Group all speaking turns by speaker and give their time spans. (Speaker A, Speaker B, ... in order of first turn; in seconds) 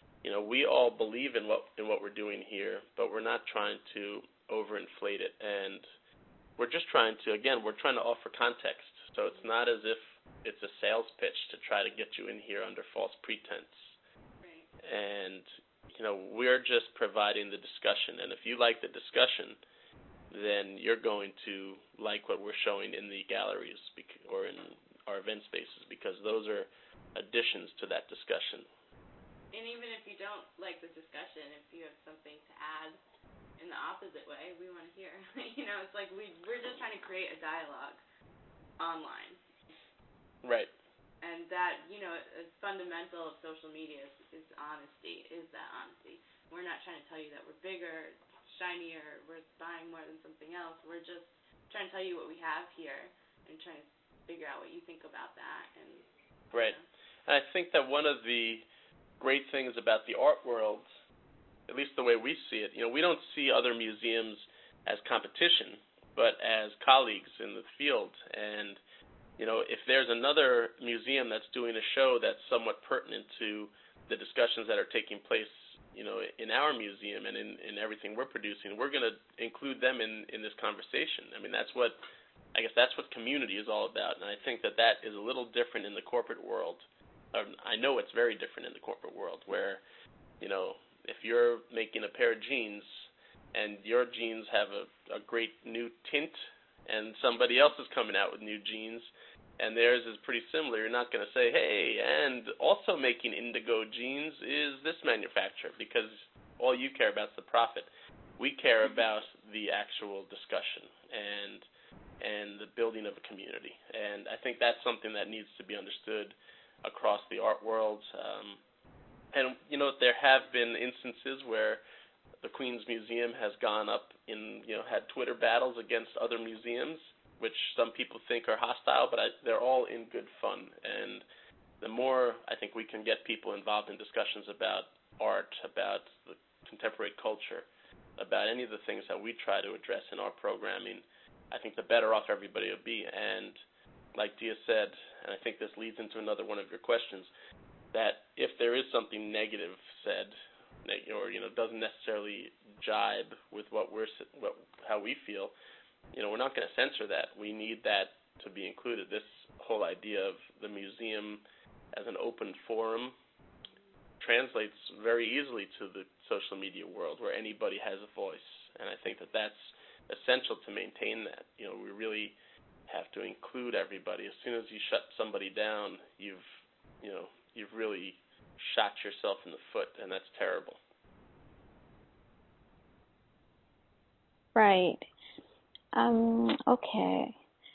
Speaker A: 0.2-5.8, 6.6-13.9, 14.8-19.6, 20.3-28.7, 40.4-40.7, 56.5-58.6, 59.2-60.9, 61.7-68.8, 69.4-82.0, 82.5-89.8, 90.4-99.1, 99.6-111.6, 112.2-118.6, 119.3-121.8, 122.4-131.2, 131.8-143.6, 144.1-147.3, 147.9-155.5, 156.1-163.2, 164.2-172.4, 172.9-176.4, 177.0-180.8
Speaker B: 14.4-14.7, 29.5-33.0, 33.6-38.0, 38.8-39.4, 41.2-56.8
Speaker C: 184.5-185.1, 185.9-187.3